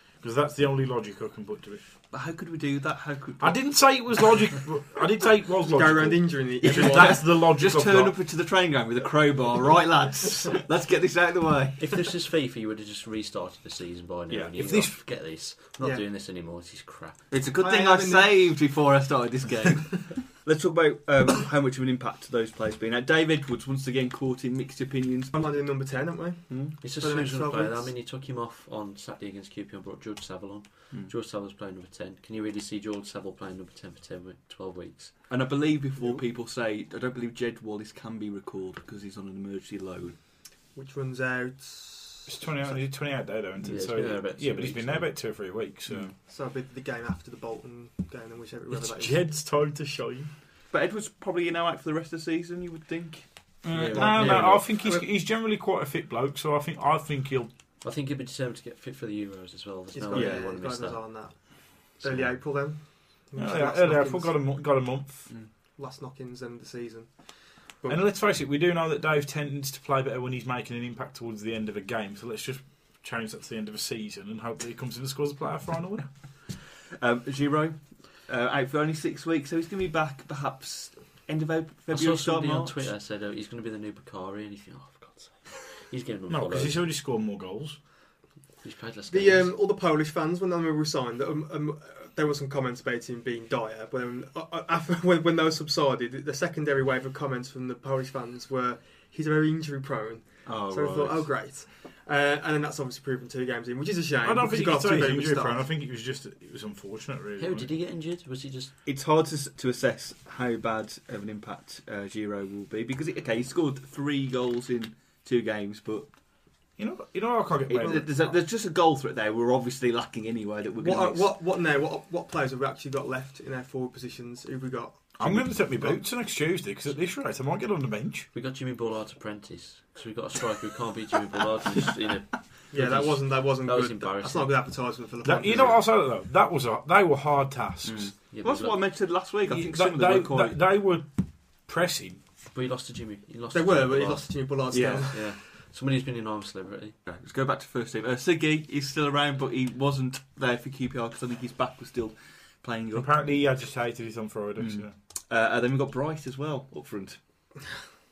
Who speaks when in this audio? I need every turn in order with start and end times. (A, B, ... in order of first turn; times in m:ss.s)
0:00.2-0:01.8 A
0:02.1-0:03.6 B
0:03.4-0:08.1 A
0:05.7-0:07.2 C
0:06.6-0:11.9 B
0:11.8-0:17.2 D
0:14.3-0:14.9 A
0:17.3-0:25.3 B
0:17.6-0:18.3 C
0:25.3-0:27.9 C
0:26.5-0:26.8 B
0:26.8-0:35.1 D
0:35.3-0:40.2 B
0:40.7-0:42.4 C
0:42.3-0:46.1 A
0:43.6-0:45.1 D
0:45.9-0:46.1 B
0:46.2-0:49.3 C
0:48.7-0:50.3 A
0:50.7-0:53.2 B
0:53.6-0:57.5 A
0:53.7-0:54.5 D
0:53.8-0:55.1 C
0:54.2-0:54.5 B
0:57.8-1:01.0 D
0:59.9-1:04.3 C
1:00.1-1:00.5 B
1:03.4-1:05.3 A
1:05.8-1:07.1 C
1:07.9-1:16.1 A
1:17.0-1:22.8 B
1:21.9-1:26.8 D
1:26.3-1:27.8 A
1:28.6-1:29.5 D
1:29.1-1:45.6 C
1:40.4-1:41.3 B
1:44.2-1:47.7 A
1:47.4-1:48.7 D
1:48.8-1:56.1 B
1:56.8-1:58.1 A
1:57.7-2:01.3 B
2:00.8-2:06.0 C
2:05.2-2:08.3 A
2:08.3-2:14.6 D
2:12.7-2:15.8 C
2:15.2-2:18.1 A
2:17.8-2:20.6 B
2:18.3-2:18.8 D
2:19.5-2:22.2 A
2:22.5-2:24.3 D
2:23.5-2:25.2 C
2:24.7-2:25.1 B
2:25.1-2:27.0 D
2:27.0-2:33.1 B
2:32.9-2:34.9 A
2:34.6-2:37.2 B